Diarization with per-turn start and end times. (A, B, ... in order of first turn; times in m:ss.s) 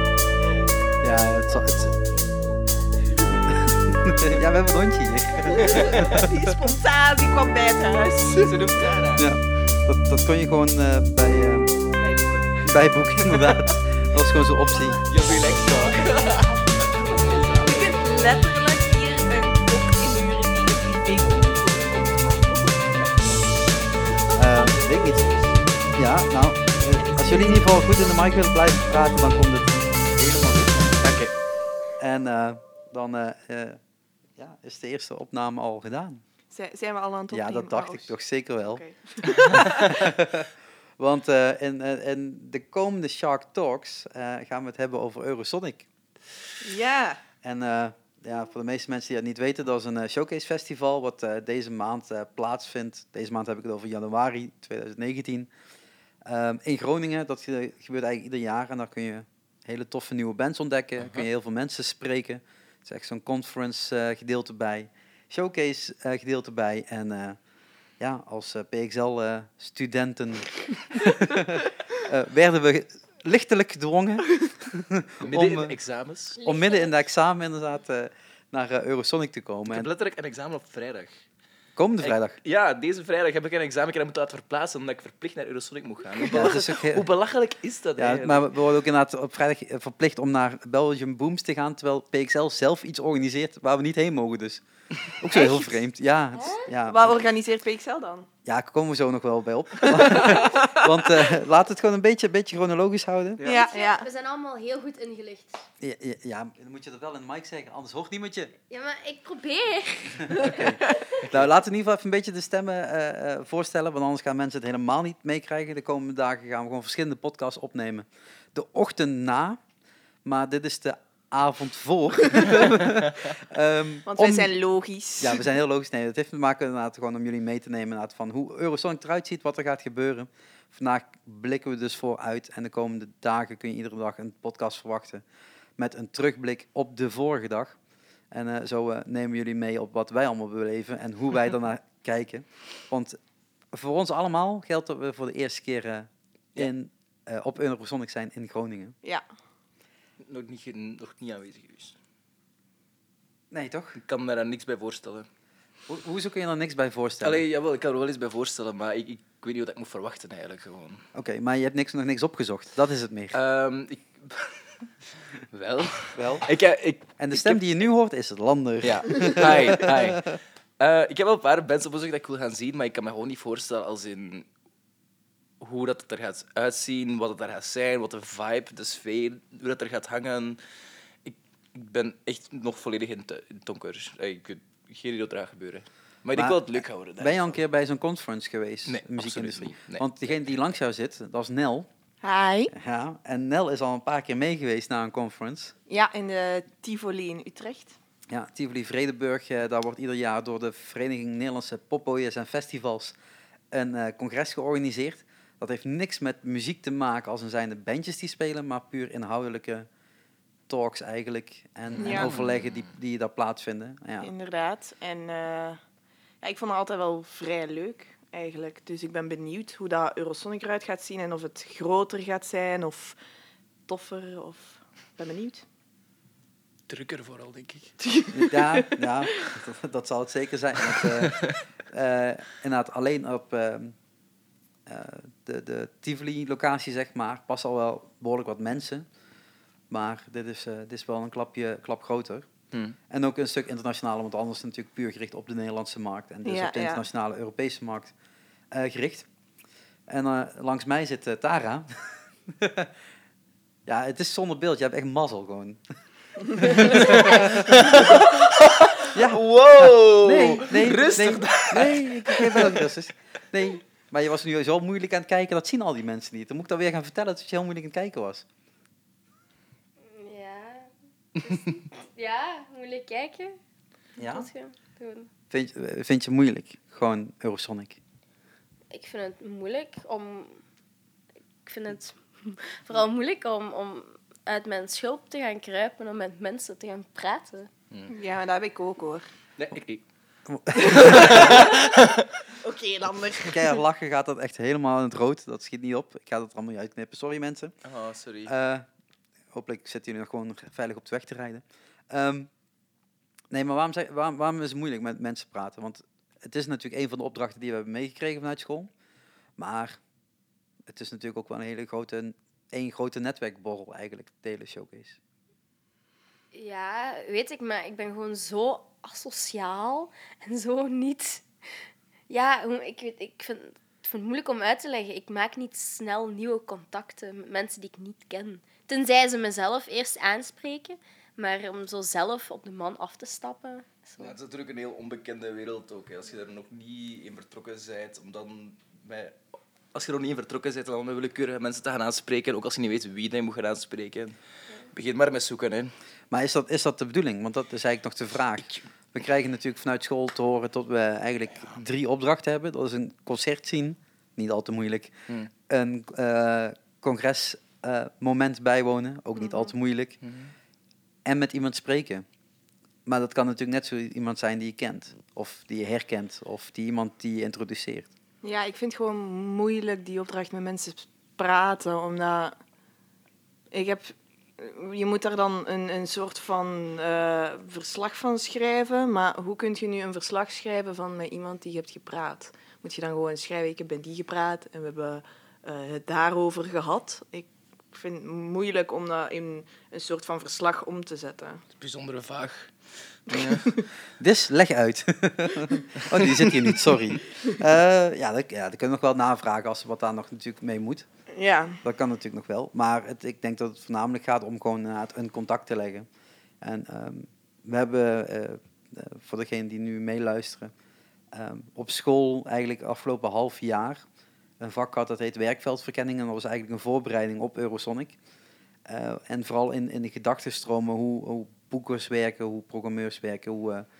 0:01.0-0:01.9 A
0:01.8-0:02.9 B
0:03.5-0:06.3 A
0:05.5-0:09.0 C
0:05.6-0:06.2 D
0:08.3-0:09.3 D
0:09.2-0:11.7 A
0:11.9-0:13.7 C
0:12.6-0:15.0 A
0:15.0-0:18.0 D
0:15.6-0:16.1 C
0:16.1-0:16.4 B
0:17.4-0:23.3 C
0:24.3-0:25.2 A
0:26.0-0:31.3 A
0:31.0-0:31.3 D
0:32.0-0:33.8 A
0:34.4-0:36.2 A
0:36.5-0:38.1 C
0:37.3-0:38.8 A
0:38.6-0:40.1 C
0:39.5-0:45.9 A
0:46.6-0:47.2 C
0:47.4-0:55.5 A
0:56.2-1:07.4 A
1:01.0-1:01.2 D
1:08.0-1:15.8 A
1:15.2-1:16.4 D
1:16.4-1:17.0 B
1:16.4-1:19.9 A
1:19.7-1:21.1 D
1:21.8-1:22.4 A
1:22.0-1:28.5 D
1:26.2-1:27.1 A
1:28.0-1:37.2 A
1:35.3-1:35.8 C
1:36.4-1:36.7 B
1:36.8-1:38.3 C
1:38.4-1:43.4 A
1:39.8-1:41.3 C
1:43.4-1:44.1 C
1:43.5-1:45.6 B
1:45.8-1:48.5 A
1:48.7-1:50.7 B
1:50.3-1:59.6 A
2:00.2-2:04.5 A
2:04.1-2:05.4 C
2:05.2-2:15.2 A
2:15.8-2:17.8 A
2:18.3-2:23.2 A
2:23.7-2:28.9 A
2:30.2-2:32.0 D
2:33.5-2:34.0 A
2:34.0-2:35.2 D
2:35.9-2:37.4 A
2:37.2-2:41.0 D
2:41.1-2:43.4 A
2:43.3-2:44.8 D
2:45.5-2:47.6 D
2:46.2-2:46.5 A
2:47.2-2:50.2 A
2:48.8-2:54.5 D
2:55.6-3:00.6 D
3:01.2-3:07.5 D
3:06.3-3:11.9 A
3:08.9-3:10.1 D
3:12.2-3:12.7 C
3:12.7-3:15.7 A
3:15.9-3:18.0 C
3:18.3-3:23.2 A
3:23.7-3:29.9 A
3:30.7-3:34.3 A
3:32.0-3:32.4 C
3:32.1-3:32.8 D
3:34.2-3:35.8 C
3:36.4-3:43.2 C
3:43.9-3:45.6 C
3:46.9-3:47.9 D
3:48.1-3:48.9 C
3:48.3-3:53.9 A
3:51.0-3:51.6 D
3:54.8-3:59.1 A
3:59.9-4:02.5 A
4:03.1-4:08.1 A
4:06.4-4:07.0 C
4:08.7-4:09.3 A
4:10.1-4:12.9 A
4:13.8-4:15.8 A
4:16.6-4:18.3 A
4:16.8-4:22.9 D
4:19.1-4:28.4 A
4:30.1-4:33.6 B
4:34.2-4:34.5 A
4:34.2-4:35.3 B
4:35.5-4:38.0 A
4:38.9-4:40.6 B
4:41.6-4:47.7 B
4:48.1-4:49.2 C
4:49.6-4:50.0 D
4:50.5-4:51.6 A
4:50.7-4:52.3 D
4:50.9-4:51.9 C
4:52.6-4:53.8 C
4:53.5-4:57.7 A
4:57.8-4:58.5 D
4:58.4-4:58.9 A
4:59.5-5:02.5 A
5:03.5-5:08.9 A
5:09.6-5:10.0 A
5:10.9-5:15.2 A
5:16.5-5:21.4 B
5:22.3-5:34.3 B
5:34.2-5:39.4 D
5:39.9-5:45.9 D
5:46.3-5:55.1 A
5:55.7-6:00.2 A
6:00.2-6:00.5 D
6:01.2-6:02.2 A
6:03.1-6:08.1 A
6:08.4-6:12.6 C
6:13.7-6:31.6 C
6:31.8-6:33.8 D
6:34.2-6:41.1 A
6:36.0-6:36.6 D
6:41.3-6:41.8 C
6:41.8-6:46.1 A
6:46.6-6:50.7 A
6:51.3-6:54.0 A
6:54.6-6:58.2 A
6:58.9-7:03.9 A